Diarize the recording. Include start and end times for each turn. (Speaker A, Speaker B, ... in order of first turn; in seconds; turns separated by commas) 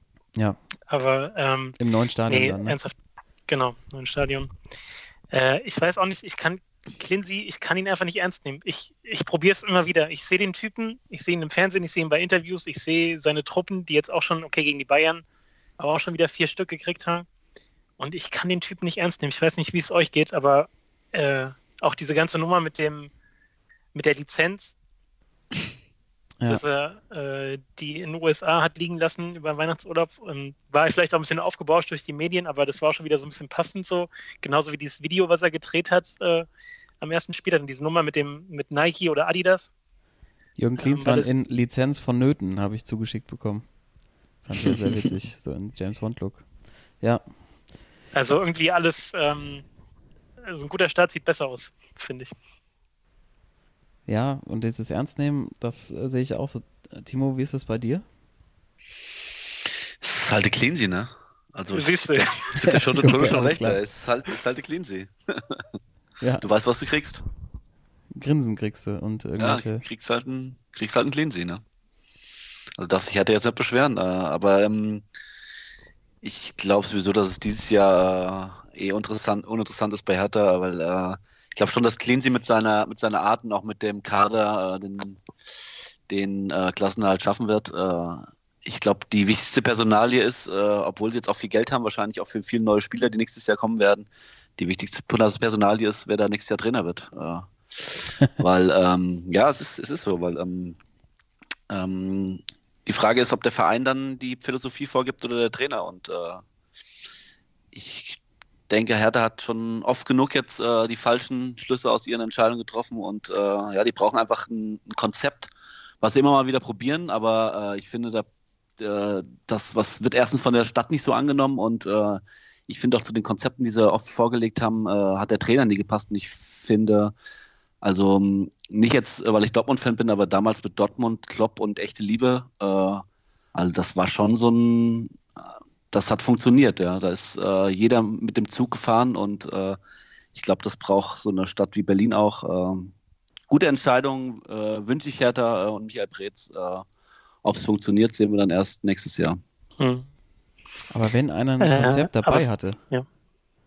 Speaker A: 0.9-2.9, Speaker B: 1.8-2.8, Speaker A: 3.5-4.5, Speaker A: 5.3-15.2, Speaker A: 15.8-17.3, Speaker A: 18.0-23.1, Speaker A: 23.9-24.7, Speaker A: 26.5-36.5, Speaker A: 37.0-39.7, Speaker B: 40.6-43.8, Speaker A: 40.8-41.3, Speaker B: 44.4-47.2, Speaker A: 48.1-49.6, Speaker A: 50.4-52.3, Speaker B: 54.0-58.0, Speaker C: 60.0-65.6, Speaker A: 61.7-63.2, Speaker B: 62.6-63.8, Speaker B: 66.2-66.5, Speaker C: 66.4-67.2, Speaker B: 68.1-69.8, Speaker C: 69.4-71.6, Speaker C: 72.8-75.0, Speaker C: 76.2-85.2, Speaker C: 86.1-100.8, Speaker C: 101.7-106.4, Speaker C: 107.7-115.5, Speaker C: 116.0-118.2, Speaker C: 118.8-127.1, Speaker C: 127.8-133.0, Speaker C: 133.5-135.2, Speaker C: 135.9-139.8, Speaker C: 140.3-142.9, Speaker C: 143.5-146.8, Speaker C: 147.4-149.4, Speaker A: 149.8-150.1, Speaker B: 150.9-152.8, Speaker A: 151.6-153.1